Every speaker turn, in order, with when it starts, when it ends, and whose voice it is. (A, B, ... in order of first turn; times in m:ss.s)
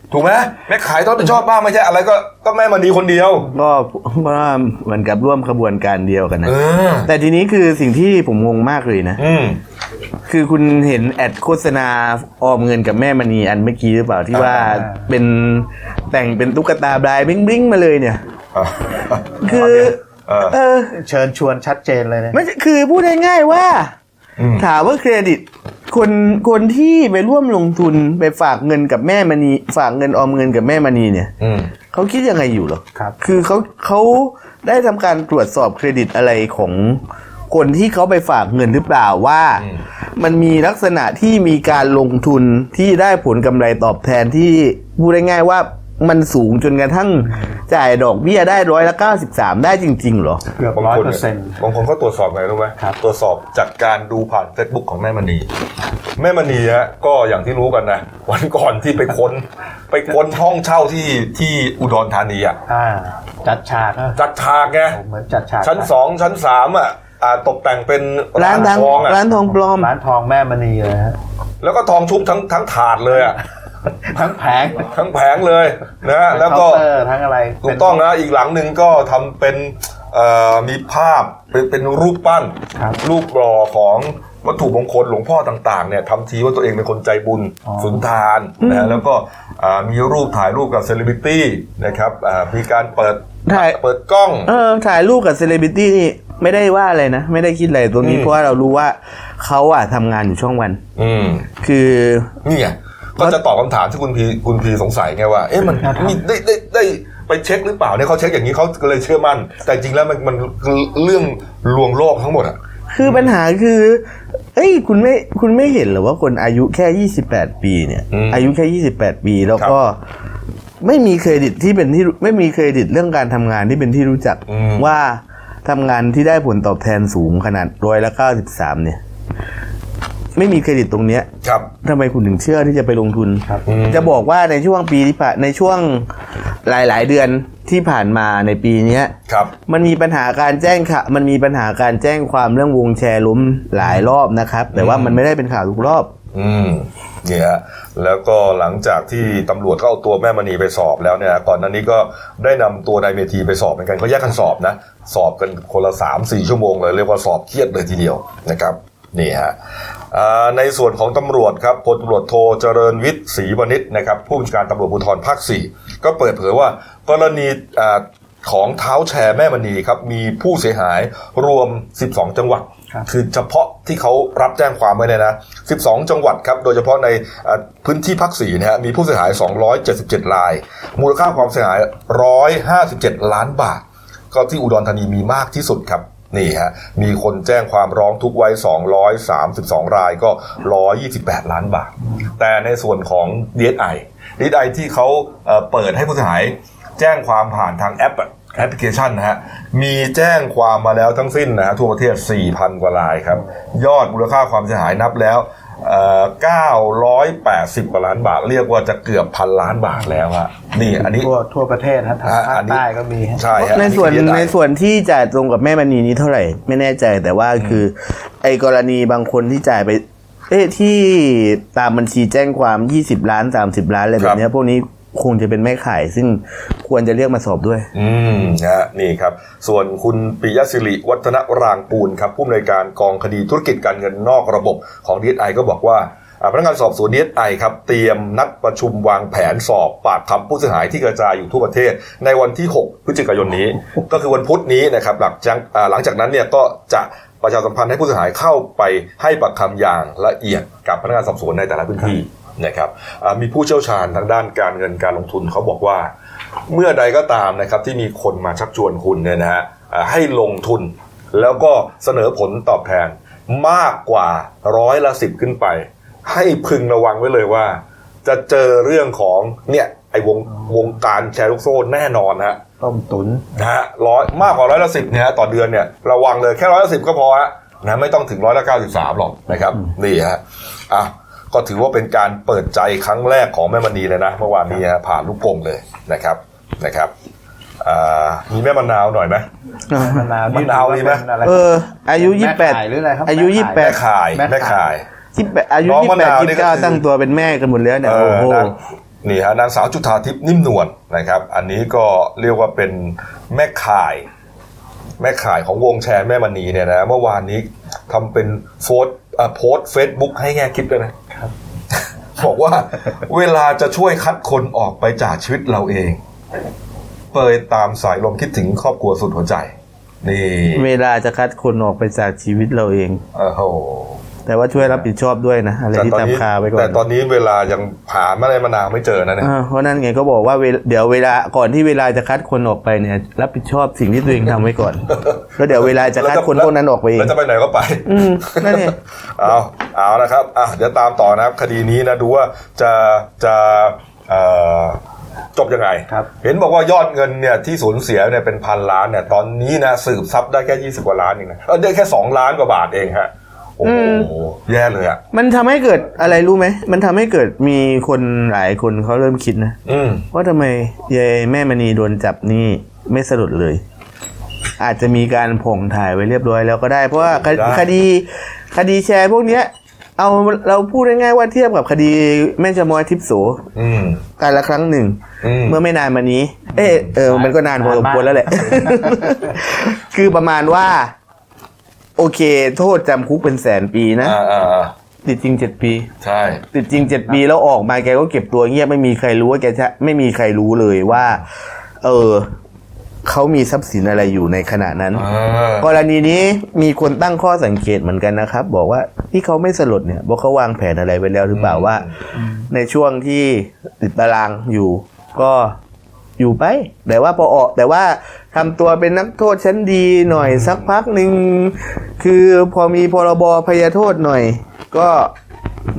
0:00.1-0:03.5 A
0:03.5-0:09.2 B
0:06.4-0:07.1 A
0:09.2-0:09.6 A
0:10.3-0:18.2 B
0:14.3-0:14.8 A
0:14.7-0:15.0 C
0:18.5-0:20.6 A
0:19.4-0:20.0 B
0:20.5-0:20.9 B
0:20.9-0:22.4 C
0:22.3-0:23.9 B
0:24.4-0:24.7 A
0:24.6-0:31.3 B
0:31.4-0:31.7 A
0:31.9-0:50.4 B
0:47.2-0:47.6 C
0:50.6-0:51.6 C
0:50.7-0:55.5 A
0:56.2-1:02.6 A
1:02.7-1:04.2 C
1:04.2-1:05.0 A
1:04.9-1:05.9 C
1:05.6-1:09.2 A
1:08.4-1:09.9 B
1:08.5-1:11.2 C
1:11.6-1:13.4 A
1:14.0-1:14.9 C
1:14.8-1:16.8 A
1:16.3-1:18.0 C
1:17.6-1:34.5 A
1:27.6-1:28.0 C
1:28.6-1:29.0 B
1:33.4-1:33.8 B
1:34.4-1:40.8 B
1:38.0-1:38.3 A
1:41.0-1:41.5 A
1:41.6-1:42.4 B
1:42.4-1:53.3 A
1:45.8-1:46.2 C
1:52.9-2:00.0 B
1:58.1-1:58.5 A
2:00.8-2:09.0 B
2:04.5-2:04.9 A
2:10.3-2:11.3 B
2:11.4-2:11.7 A
2:11.8-2:16.1 B
2:13.6-2:14.1 A
2:16.6-2:19.1 B
2:19.3-2:19.5 A
2:19.7-2:26.1 B
2:24.7-2:25.2 A
2:26.3-2:39.5 A
2:40.1-3:31.3 A
3:30.9-3:33.7 C
3:32.2-3:32.8 A
3:33.4-3:34.5 A
3:33.6-3:47.9 B
3:37.6-3:37.8 A
3:47.9-4:16.1 A
4:16.7-4:32.6 A
4:32.8-4:33.4 C
4:33.5-4:47.1 A
4:47.8-4:49.5 A
4:49.9-4:50.2 B
4:49.9-4:54.8 C
4:50.5-4:51.2 A
4:51.4-4:54.0 B
4:53.7-4:55.0 A
4:55.3-4:58.7 B
4:55.8-4:57.0 A
4:58.0-5:04.2 A
5:05.2-5:11.1 A
5:12.4-5:16.2 A
5:17.3-5:20.9 A
5:20.7-5:23.2 B
5:23.3-5:24.2 A
5:24.4-5:27.0 B
5:24.8-5:25.0 A
5:25.9-5:29.5 A
5:29.4-5:37.3 B
5:35.1-5:45.0 A
5:38.0-5:38.9 B
5:45.5-5:55.2 A
5:53.8-5:54.3 B
5:55.3-5:59.8 B
5:59.8-6:00.2 A
6:00.3-6:03.8 B
6:04.8-6:13.7 B
6:07.2-6:07.9 A
6:13.7-6:14.2 A
6:14.4-6:21.1 B
6:15.4-6:15.8 A
6:16.8-6:19.4 C
6:22.2-6:24.4 B
6:24.2-6:24.9 A
6:25.2-6:26.1 B
6:26.2-6:26.6 A
6:26.7-6:31.4 B
6:32.0-6:32.5 B
6:33.2-6:35.2 B
6:35.1-6:35.9 A
6:35.8-6:42.0 B
6:41.5-6:42.2 A
6:42.4-6:42.6 C
6:42.7-6:45.8 B
6:46.4-6:55.3 B
6:50.4-6:50.9 A